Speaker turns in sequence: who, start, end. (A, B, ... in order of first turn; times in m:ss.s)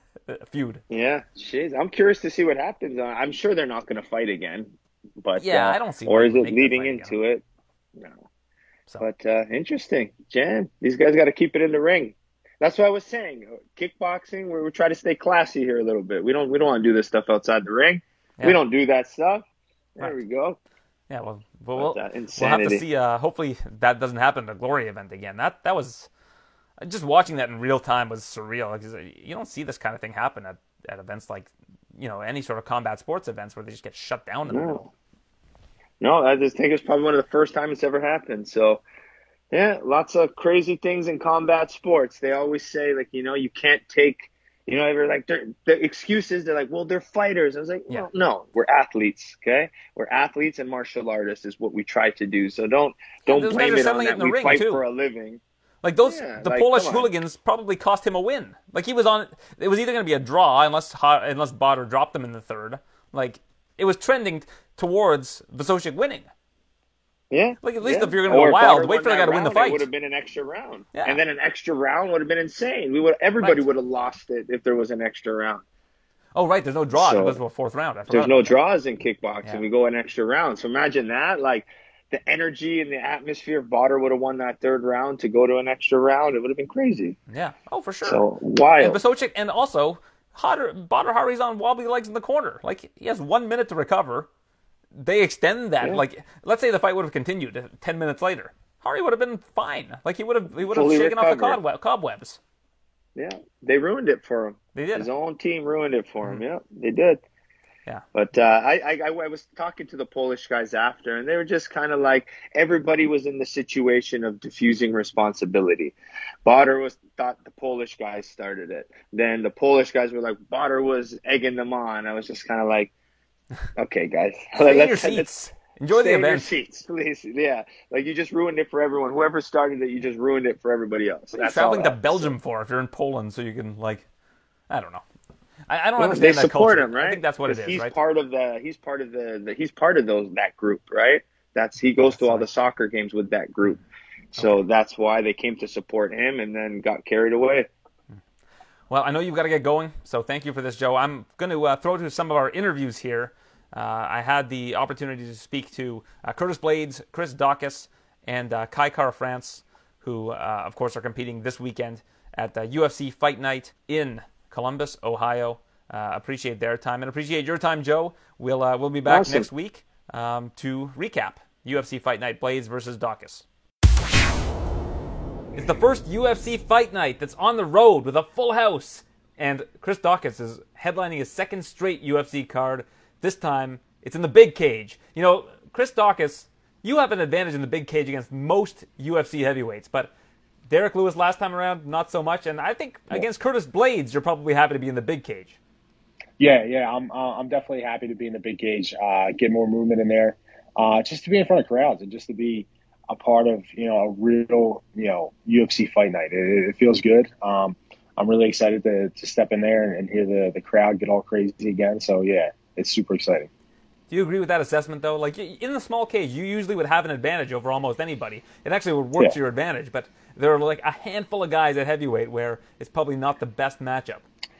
0:00.3-0:00.8 A
0:00.9-0:07.4 B
0:05.4-0:07.1 A
0:07.9-0:08.2 B
0:09.0-0:19.4 B
0:20.0-0:20.6 B
0:21.1-0:26.1 A
0:21.7-0:22.8 B
0:26.8-0:34.9 A
0:34.5-0:34.9 B
0:36.0-0:38.8 B
0:39.5-0:55.4 B
0:53.2-0:54.8 A
0:55.8-1:06.3 A
0:56.0-0:57.1 B
1:07.3-1:15.6 B
1:07.6-1:09.9 A
1:10.9-1:11.2 A
1:13.4-1:13.7 A
1:16.3-1:18.6 A
1:16.9-1:17.4 B
1:18.1-1:27.2 B
1:27.3-1:28.2 A
1:28.0-1:29.0 B
1:28.8-1:34.3 A
1:35.0-1:42.4 A
1:40.6-1:41.6 B
1:43.1-1:47.2 B
1:44.7-1:45.1 A
1:48.1-1:55.9 B
1:56.4-2:02.9 B
2:03.8-2:05.3 B
2:04.6-2:06.5 A
2:05.9-2:12.3 B
2:11.3-2:14.0 A
2:14.7-2:15.0 A
2:15.7-2:17.9 A
2:16.0-2:23.8 B
2:22.0-2:22.5 A
2:24.3-2:27.7 B
2:24.4-2:24.6 A
2:28.9-2:53.4 A
2:49.1-2:49.5 B
2:55.6-3:10.1 A
3:10.7-3:15.6 A
3:16.4-3:33.5 C
3:34.1-3:44.2 A